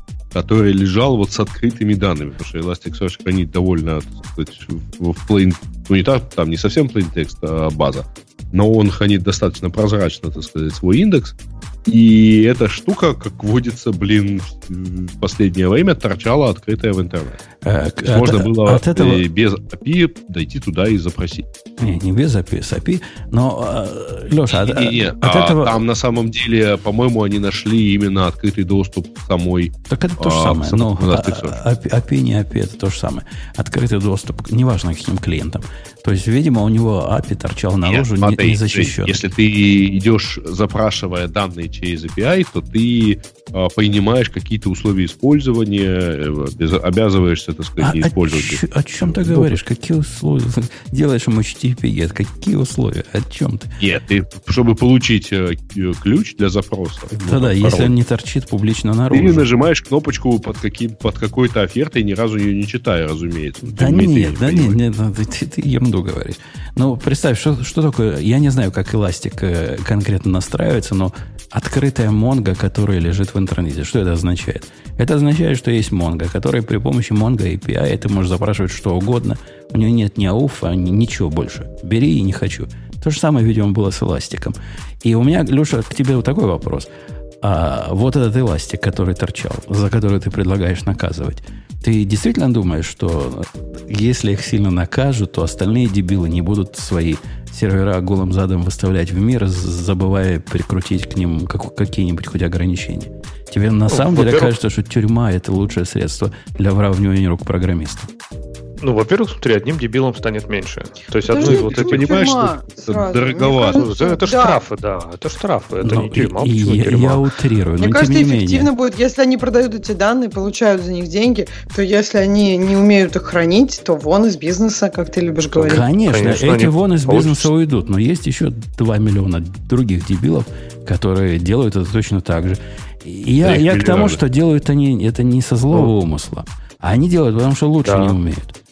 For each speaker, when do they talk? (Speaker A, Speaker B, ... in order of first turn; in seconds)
Speaker A: 0.3-17.4, 18.0-21.5, 24.5-31.6, 37.9-49.6, 53.8-57.9, 59.1-64.8, 111.4-113.9, 133.4-134.2
Speaker B: 17.6-19.2, 21.8-25.8, 29.9-39.2, 47.8-53.7, 57.1-59.5, 63.6-86.9, 87.4-108.1, 115.8-118.7, 125.6-138.6
Speaker C: 103.9-104.5, 108.8-112.3, 113.5-117.2, 125.7-127.5, 137.8-138.2
Speaker D: 111.3-114.6, 117.8-125.9